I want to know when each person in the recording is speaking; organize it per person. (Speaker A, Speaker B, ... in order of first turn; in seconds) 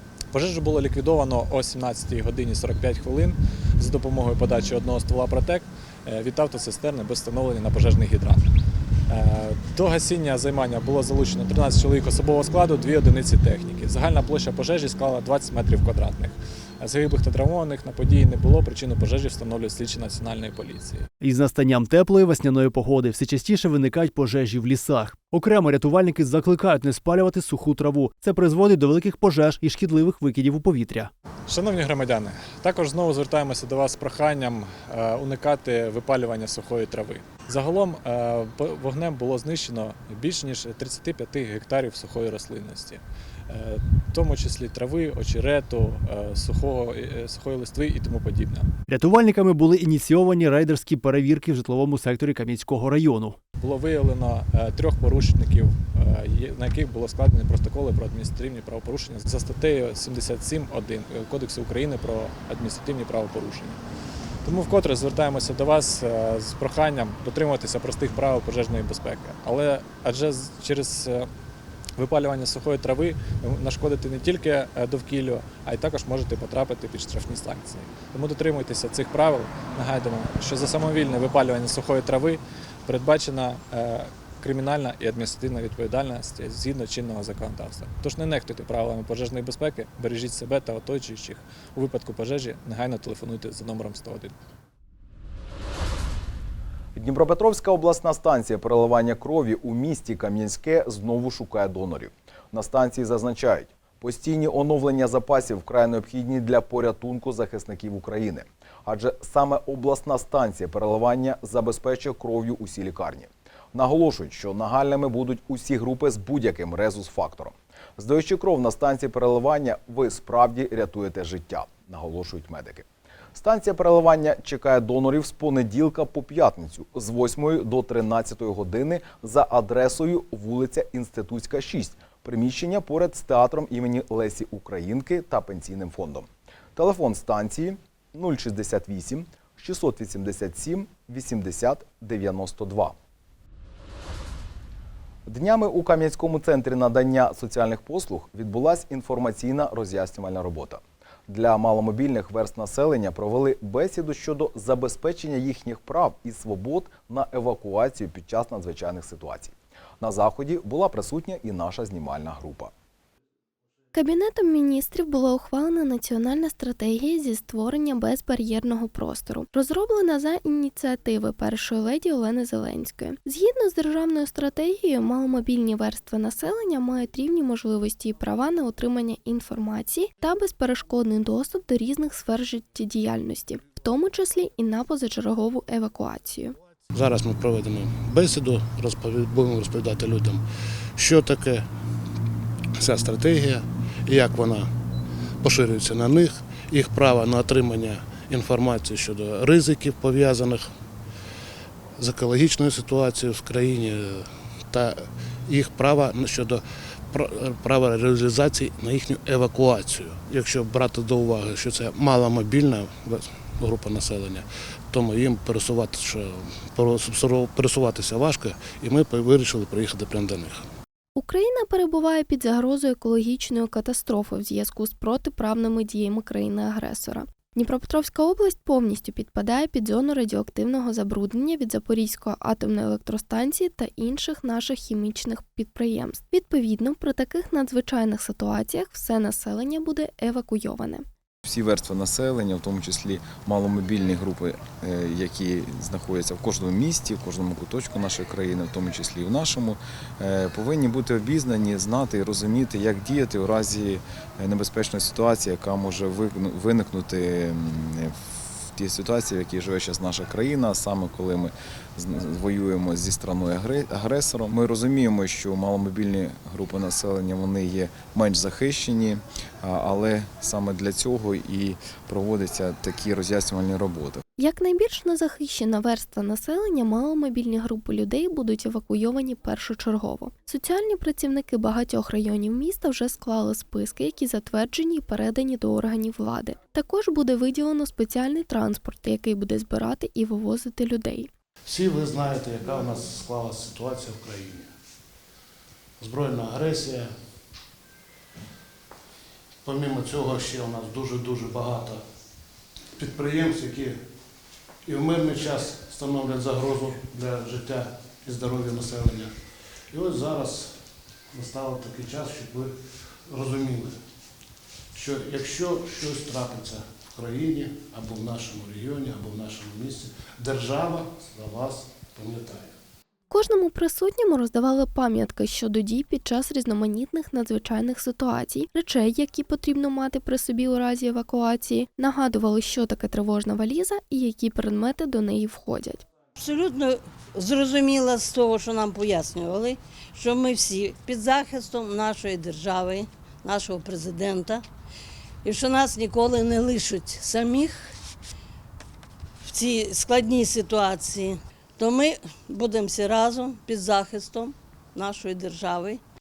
Speaker A: 0.3-8.5, 9.1-21.1, 31.5-48.7, 53.6-63.8, 64.5-71.3, 72.0-94.4
Speaker B: 21.2-31.1, 48.9-53.4
Speaker C: 97.0-143.0, 145.3-162.7
Speaker D: 163.9-186.6, 221.2-241.1, 274.4-291.3, 323.3-336.0
Speaker E: 186.9-190.4, 191.0-191.7, 192.8-194.7, 195.4-200.7, 202.0-220.7, 291.6-294.7, 296.0-297.1, 299.6-302.0, 302.9-304.0, 304.9-314.0, 314.9-322.8
Speaker F: 241.4-274.2
Speaker G: 336.4-344.6, 345.4-347.9, 349.4-356.0